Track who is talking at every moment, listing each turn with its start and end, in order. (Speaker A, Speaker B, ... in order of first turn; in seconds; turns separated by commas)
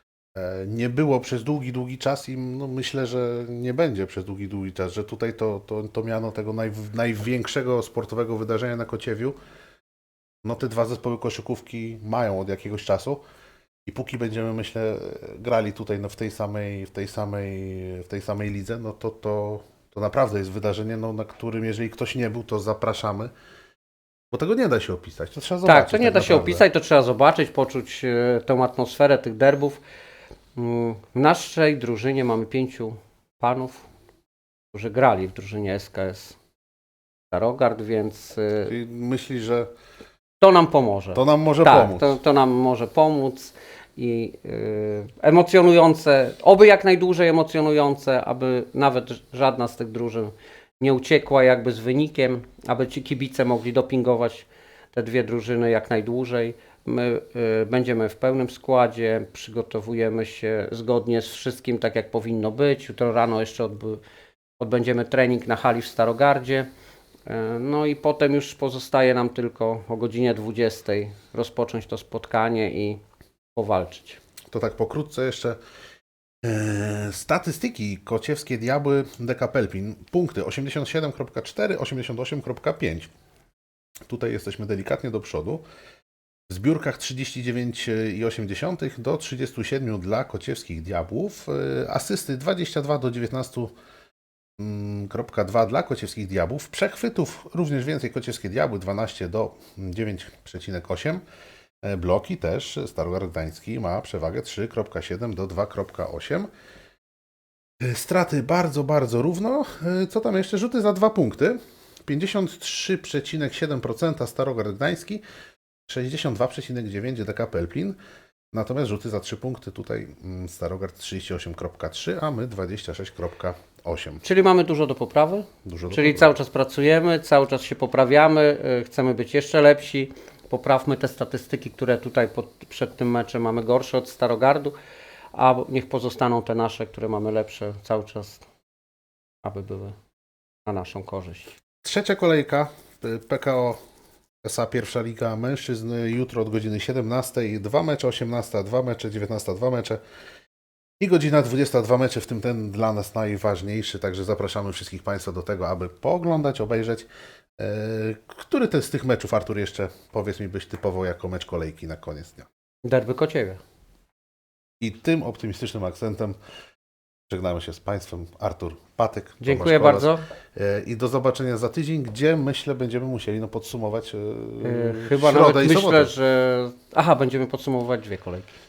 Speaker A: 0.3-9.4, Speaker A: 10.4-13.2, Speaker A: 13.9-23.3, Speaker A: 24.3-26.6, Speaker B: 25.6-29.8, Speaker B: 30.6-33.9, Speaker B: 34.7-36.4, Speaker B: 37.3-38.7, Speaker A: 38.7-39.7, Speaker B: 40.4-64.0, Speaker A: 41.1-42.1, Speaker B: 64.6-66.7, Speaker B: 67.3-73.0, Speaker B: 73.5-74.2, Speaker A: 74.5-75.6, Speaker A: 76.4-83.1, Speaker A: 84.1-85.6, Speaker A: 86.5-93.7, Speaker A: 94.6-101.2, Speaker A: 101.8-106.5, Speaker A: 107.8-115.2, Speaker A: 115.9-118.0, Speaker A: 118.5-124.2, Speaker B: 124.2-134.7, Speaker A: 125.7-126.3, Speaker B: 135.3-138.4, Speaker B: 139.4-140.0, Speaker B: 140.7-141.6, Speaker A: 141.8-143.8, Speaker A: 144.4-150.0, Speaker A: 151.0-162.5, Speaker B: 162.8-163.6, Speaker A: 164.8-166.4, Speaker A: 167.3-176.1, Speaker B: 169.4-170.3, Speaker B: 174.6-178.5